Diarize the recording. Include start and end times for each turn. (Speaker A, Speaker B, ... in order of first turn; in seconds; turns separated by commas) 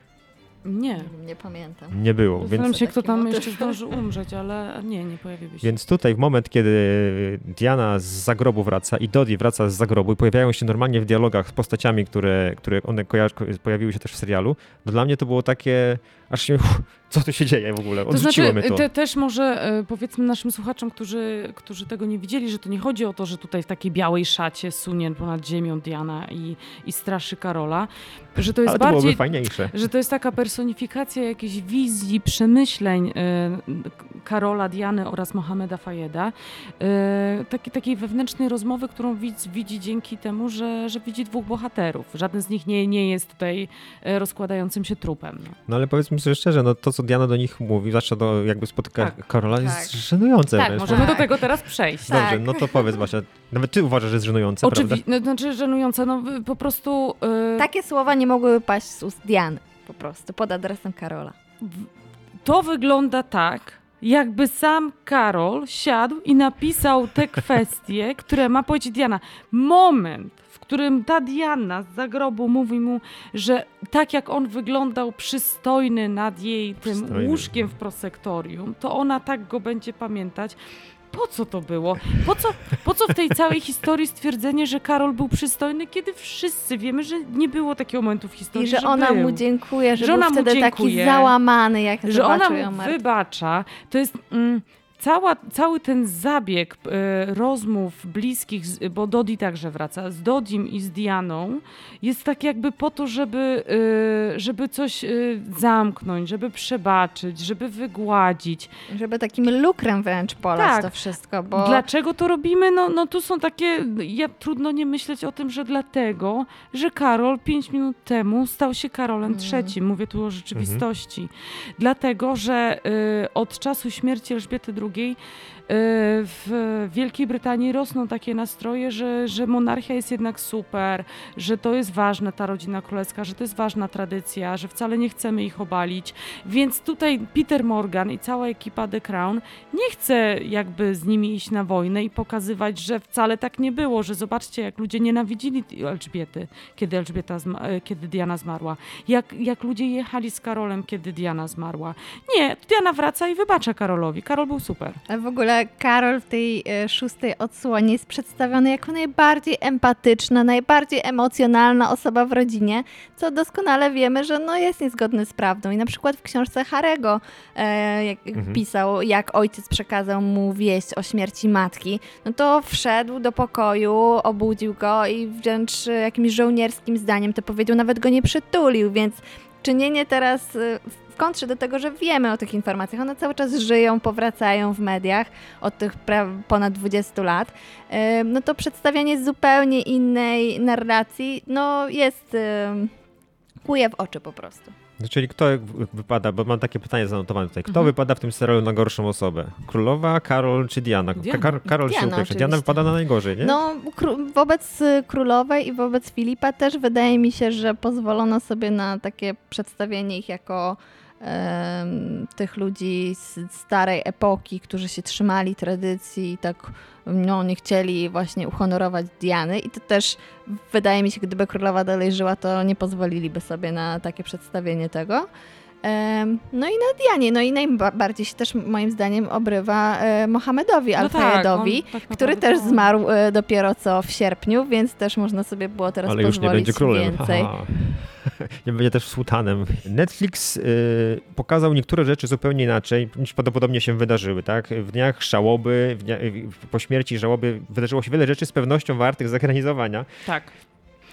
Speaker A: 0.6-1.1, Speaker B: 1.0-2.0, Speaker C: 1.9-2.8, Speaker A: 2.4-5.7, Speaker B: 2.5-4.0, Speaker C: 5.6-18.9, Speaker A: 18.1-45.6, Speaker C: 28.6-29.7, Speaker C: 45.7-51.3, Speaker B: 49.5-49.9, Speaker A: 50.5-52.1, Speaker B: 50.8-51.3, Speaker C: 52.0-55.0, Speaker B: 52.0-53.0, Speaker A: 54.6-57.7, Speaker B: 57.6-61.3, Speaker A: 61.6-61.9, Speaker A: 62.4-80.6, Speaker C: 76.8-77.7, Speaker A: 81.1-89.4, Speaker B: 88.5-93.0, Speaker A: 90.0-91.3, Speaker A: 92.0-108.7, Speaker B: 108.9-111.8, Speaker A: 110.5-110.9, Speaker A: 111.5-155.0, Speaker B: 119.3-119.7, Speaker C: 120.5-120.8, Speaker B: 155.1-192.9, Speaker C: 168.3-168.6, Speaker B: 193.6-194.7, Speaker C: 195.0-203.6, Speaker A: 201.2-201.6, Speaker B: 201.7-202.8, Speaker B: 203.4-225.3, Speaker B: 225.8-237.5, Speaker A: 231.0-232.9, Speaker C: 236.1-250.1, Speaker A: 250.2-250.5